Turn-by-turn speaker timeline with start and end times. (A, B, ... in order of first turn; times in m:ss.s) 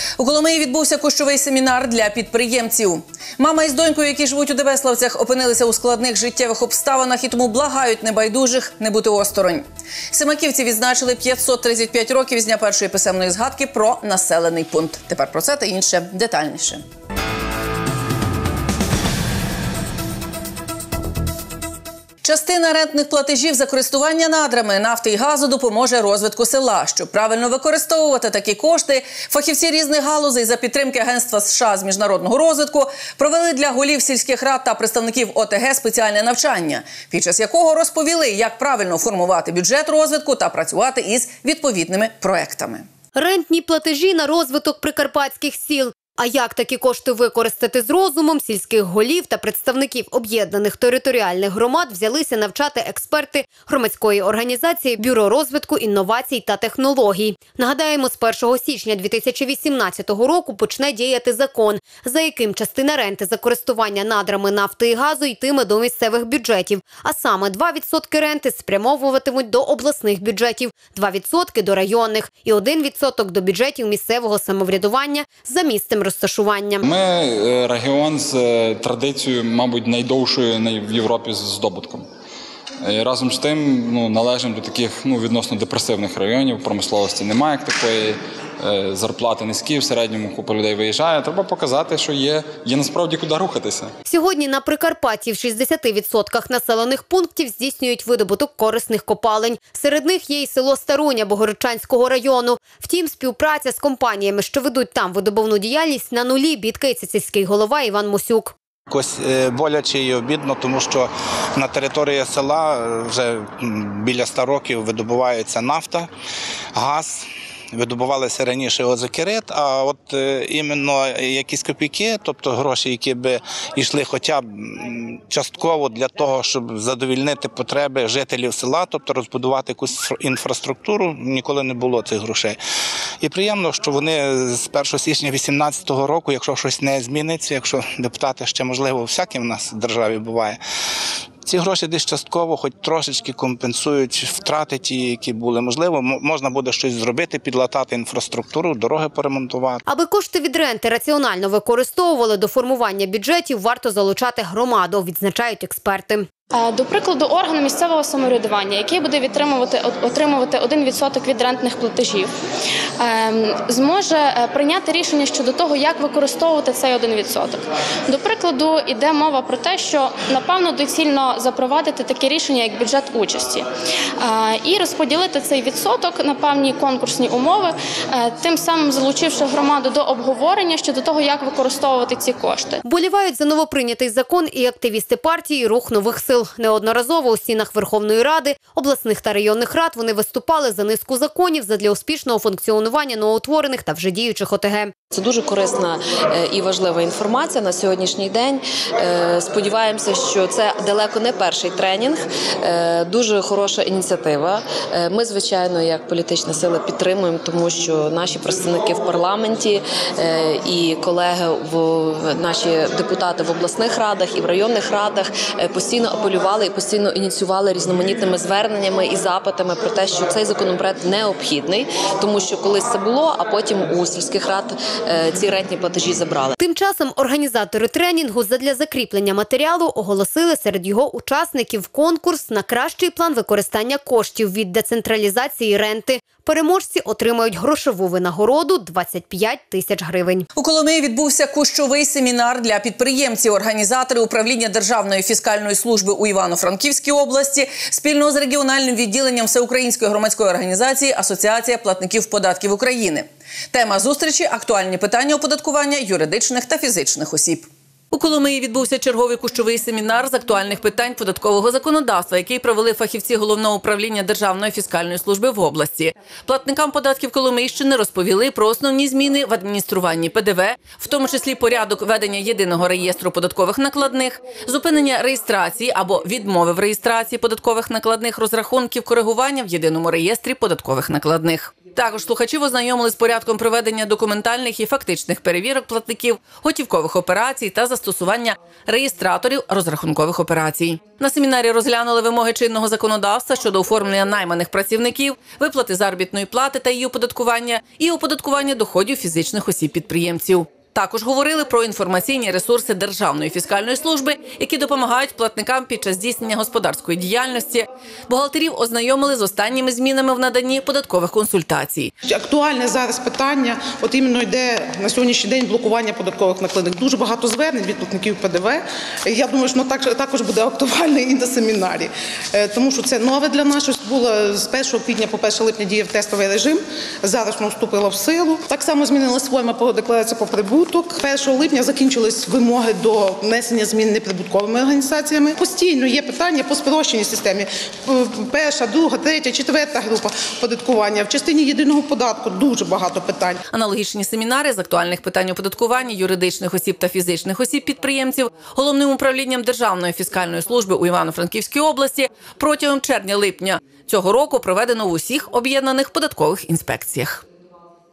0:00.2-0:16.8 A
0:22.2-0:42.8 A
0:43.2-1:16.8 B
1:16.8-1:22.1 C
1:22.8-1:33.9 C
1:34.1-1:48.5 B
1:48.9-1:56.1 D
1:56.8-2:12.6 D
2:13.2-2:20.6 D
2:21.5-2:29.8 D
2:29.9-2:36.3 B
2:36.5-2:42.3 E
2:43.0-2:53.7 E
2:54.2-3:02.8 E
3:02.8-3:14.9 B
3:15.1-3:46.6 F
3:46.6-4:00.5 B
4:00.6-5:12.1 A
5:12.3-5:43.6 G
5:43.7-5:57.4 A